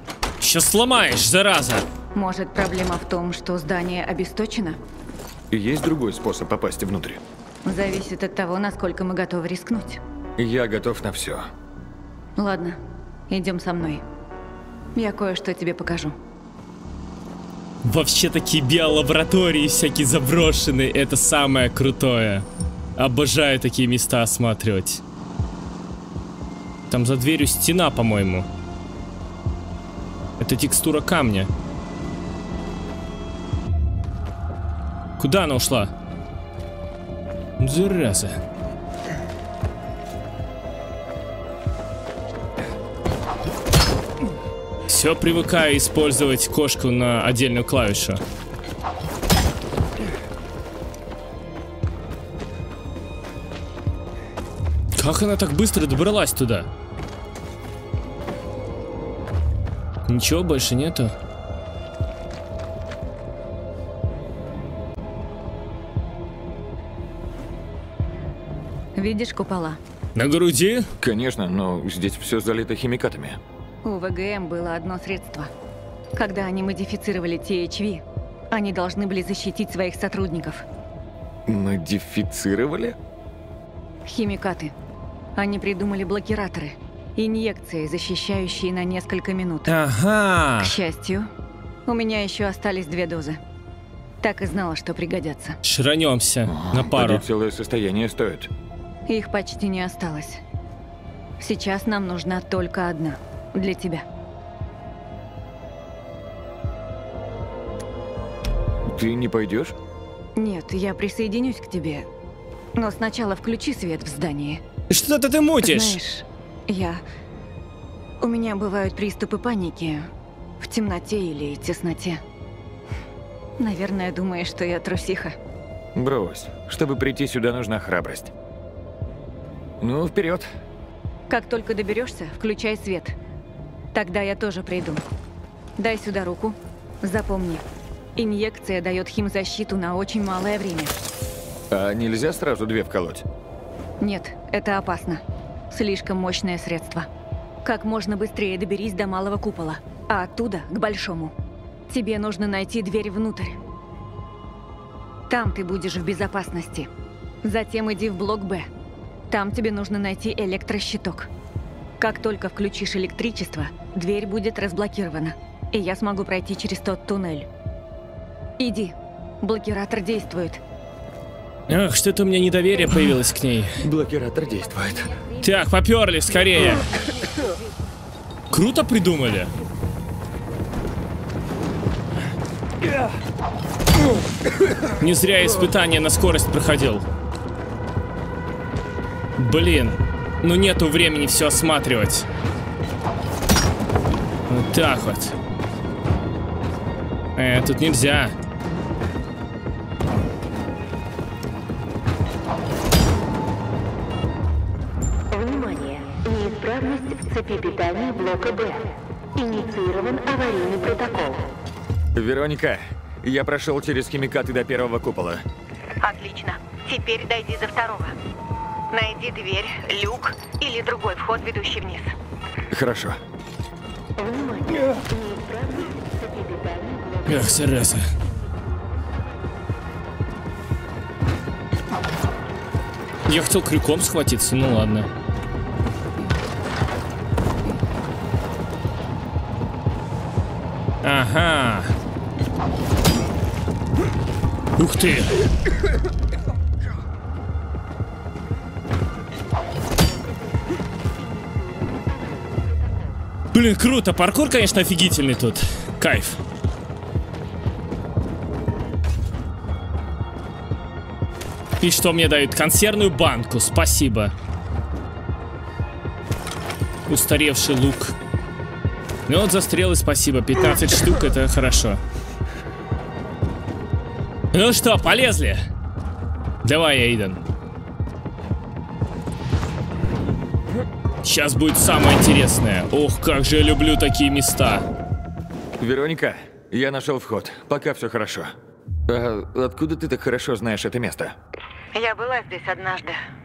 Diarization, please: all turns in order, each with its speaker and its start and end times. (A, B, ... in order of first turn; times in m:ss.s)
0:00.4-0:01.8 A
0:02.1-0:04.8 B
0:05.5-0:07.2 C
0:07.6-0:10.0 B
0:10.4-0:11.5 C
0:12.4-0:14.0 B
0:14.9-0:16.2 B
0:17.8-0:22.4 A
0:23.0-0:25.0 A
0:26.9-0:28.5 A
0:30.4-0:31.5 A
0:35.2-0:35.9 A
0:37.6-0:38.4 A
0:44.9-0:48.2 A
0:55.0-0:56.7 A
1:00.1-1:01.1 A
1:09.0-1:09.8 B
1:10.1-1:10.9 A
1:11.0-1:13.4 C
1:13.8-1:15.5 B
1:16.1-1:20.6 B
1:21.5-1:23.0 C
1:24.0-1:24.7 B
1:25.3-1:29.7 B
1:29.7-1:30.7 A
1:30.6-1:31.3 B
1:31.8-1:33.4 B
1:34.2-1:35.6 B
1:35.6-1:37.2 A
1:36.5-1:38.5 C
1:39.1-1:40.4 B
1:41.4-1:44.0 B
1:48.8-1:49.8 C
1:50.4-1:52.1 B
1:52.8-1:54.6 B
1:54.9-1:56.0 A
1:55.6-1:57.0 B
1:58.2-2:02.2 B
2:03.6-2:05.4 B
2:05.9-2:08.3 C
2:09.8-2:10.5 C
2:11.3-2:13.2 B
2:13.9-2:15.0 B
2:15.8-2:21.0 B
2:21.7-2:23.2 C
2:24.0-2:27.1 B
2:27.6-2:31.3 B
2:31.9-2:33.6 B
2:35.3-2:36.9 B
2:37.4-2:38.7 B
2:39.3-2:41.3 B
2:42.0-2:47.5 B
2:48.6-2:50.6 B
2:51.7-2:53.8 A
2:53.8-2:55.1 C
2:55.4-2:56.9 A
2:58.5-2:59.5 A
3:05.0-3:07.0 A
3:09.4-3:12.2 A
3:14.5-3:15.3 A
3:17.4-3:18.3 A
3:25.3-3:31.5 D
3:32.1-3:35.4 C
3:36.0-3:38.2 B
3:38.9-3:42.1 B
3:42.7-3:43.2 C
3:44.2-3:47.6 D
3:47.2-3:48.1 A
3:53.2-3:55.1 A
4:01.0-4:01.9 A
4:04.8-4:05.4 A
4:13.5-4:16.4 A
4:21.8-4:24.3 A
4:27.1-4:28.1 A
4:29.3-4:32.0 A
4:34.5-4:35.7 A
4:36.6-4:37.4 A
4:41.2-4:44.8 A
4:45.8-4:48.5 C
4:49.1-4:51.3 C
4:51.9-4:53.2 B